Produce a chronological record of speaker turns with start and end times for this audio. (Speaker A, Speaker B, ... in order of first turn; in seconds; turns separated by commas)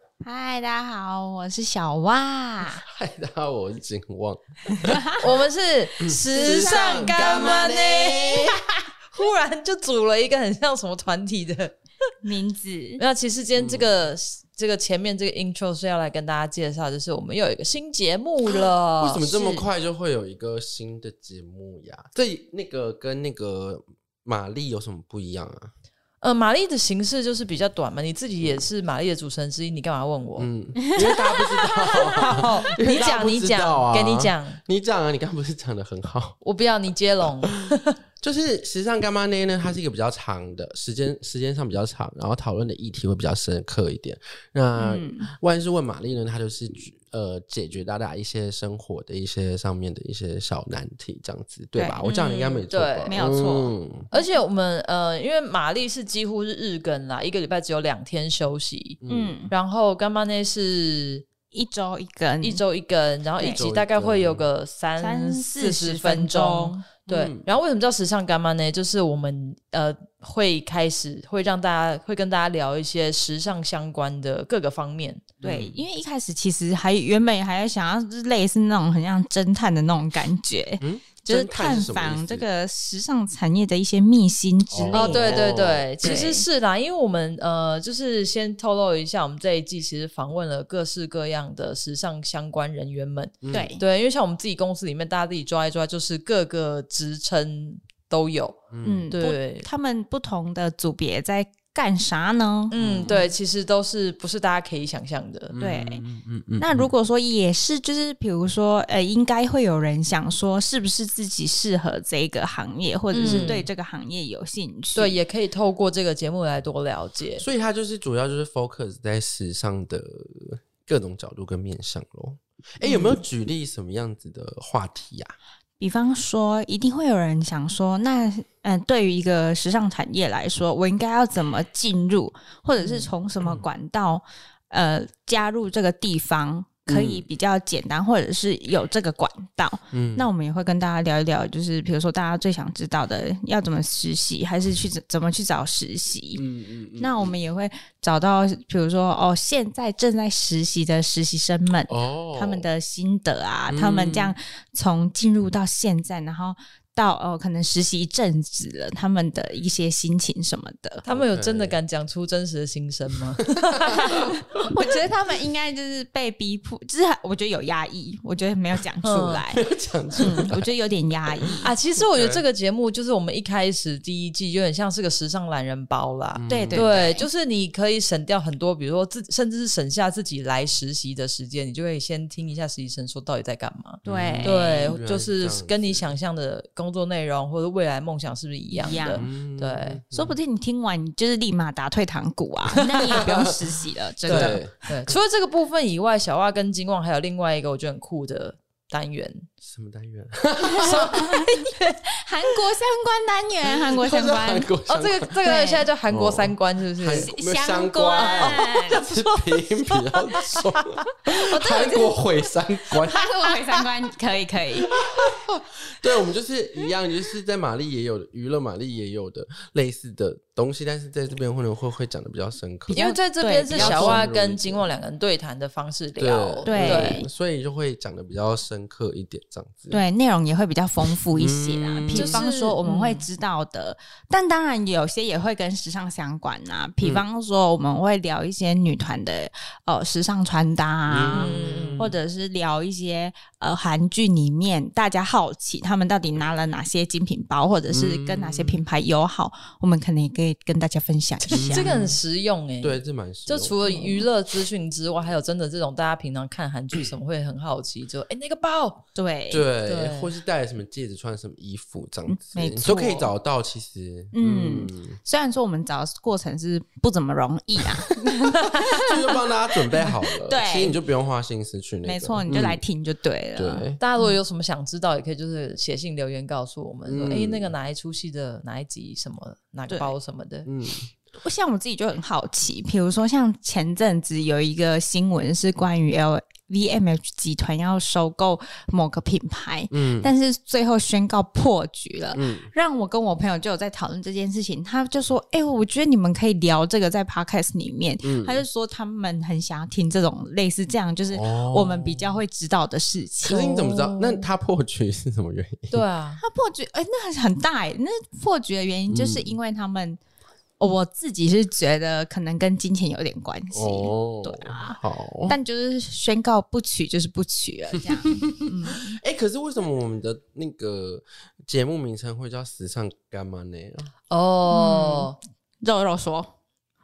Speaker A: 0.2-2.8, Speaker B: 2.9-5.0, Speaker A: 4.8-5.2, Speaker C: 5.2-11.8, Speaker B: 6.0-8.6, Speaker A: 6.4-7.5, Speaker A: 12.2-13.0, Speaker C: 13.0-19.7, Speaker B: 13.6-13.9, Speaker B: 19.0-25.7, Speaker C: 26.2-30.5, Speaker B: 30.4-36.4, Speaker A: 31.6-32.5, Speaker C: 31.9-34.6, Speaker C: 36.4-37.8, Speaker B: 38.2-54.1, Speaker A: 44.8-45.3, Speaker A: 51.7-52.1, Speaker C: 52.0-53.2, Speaker A: 53.0-54.3, Speaker C: 54.1-59.0, Speaker B: 59.0-59.3, Speaker A: 59.1-59.5, Speaker C: 59.5-61.2, Speaker A: 61.5-62.6, Speaker C: 62.4-75.3, Speaker A: 63.4-63.6, Speaker B: 63.4-64.5, Speaker A: 65.0-66.8, Speaker B: 67.1-67.5, Speaker B: 75.4-75.8, Speaker A: 75.4-85.5, Speaker B: 80.8-82.5, Speaker B: 84.7-86.2, Speaker C: 84.9-99.7, Speaker A: 86.0-86.4, Speaker A: 93.5-93.8, Speaker B: 98.7-99.1, Speaker A: 98.8-103.2, Speaker C: 102.7-105.5, Speaker B: 102.8-103.2, Speaker B: 105.5-106.9, Speaker A: 105.5-106.0, Speaker A: 106.6-115.2, Speaker C: 113.1-113.7, Speaker B: 113.2-113.6, Speaker C: 114.9-117.5, Speaker B: 117.4-125.3, Speaker C: 122.8-123.2, Speaker A: 125.8-146.4, Speaker C: 132.8-133.1, Speaker B: 136.9-137.3, Speaker B: 139.9-140.3, Speaker B: 146.3-147.4, Speaker A: 147.0-161.0, Speaker B: 151.9-152.7, Speaker B: 153.7-154.3, Speaker C: 161.0-164.2, Speaker B: 161.1-161.8, Speaker A: 164.2-169.6, Speaker C: 169.0-169.5, Speaker B: 169.5-170.7, Speaker A: 170.2-171.7, Speaker C: 170.2-170.5, Speaker B: 171.3-172.4, Speaker C: 171.6-190.0, Speaker B: 176.3-177.0, Speaker A: 176.5-177.2, Speaker A: 184.0-184.7, Speaker B: 184.0-186.1, Speaker A: 188.7-189.3, Speaker B: 189.2-190.4, Speaker A: 190.1-195.0, Speaker C: 192.7-193.2, Speaker B: 194.2-194.7, Speaker C: 194.3-199.5, Speaker B: 199.6-201.2, Speaker A: 200.7-204.7, Speaker C: 200.8-202.0, Speaker B: 203.8-205.4, Speaker C: 204.9-207.3, Speaker A: 205.4-205.9, Speaker B: 206.1-213.2, Speaker A: 207.1-209.0, Speaker C: 208.2-212.2, Speaker A: 213.0-215.0, Speaker B: 214.9-223.0, Speaker A: 222.9-224.2, Speaker C: 222.9-227.2, Speaker B: 223.7-224.9, Speaker B: 226.2-230.0, Speaker A: 226.7-227.3, Speaker A: 229.9-251.9, Speaker B: 231.3-232.4, Speaker C: 232.1-233.2, Speaker B: 237.0-237.2, Speaker B: 241.1-242.1, Speaker C: 241.3-242.1, Speaker B: 247.9-248.8, Speaker B: 251.5-252.2, Speaker C: 251.5-259.0, Speaker B: 252.8-253.8, Speaker A: 253.8-254.2, Speaker A: 259.1-259.7, Speaker B: 259.5-265.2, Speaker C: 259.9-260.3, Speaker A: 262.3-263.3, Speaker A: 264.3-269.3, Speaker B: 269.0-272.8, Speaker A: 269.9-271.0, Speaker A: 272.0-274.3, Speaker B: 273.5-274.0, Speaker C: 274.0-280.7, Speaker B: 277.1-277.7, Speaker B: 280.6-281.1, Speaker A: 281.4-303.7, Speaker B: 289.9-290.3, Speaker B: 292.3-292.7, Speaker B: 298.2-298.6, Speaker B: 301.3-302.4, Speaker B: 303.4-306.0, Speaker C: 303.7-304.5, Speaker C: 305.9-306.4, Speaker A: 306.4-310.2, Speaker B: 309.1-309.5, Speaker A: 310.8-319.1, Speaker B: 313.7-315.6, Speaker B: 318.3-324.1, Speaker C: 324.3-325.4, Speaker A: 324.7-325.3, Speaker A: 325.8-326.5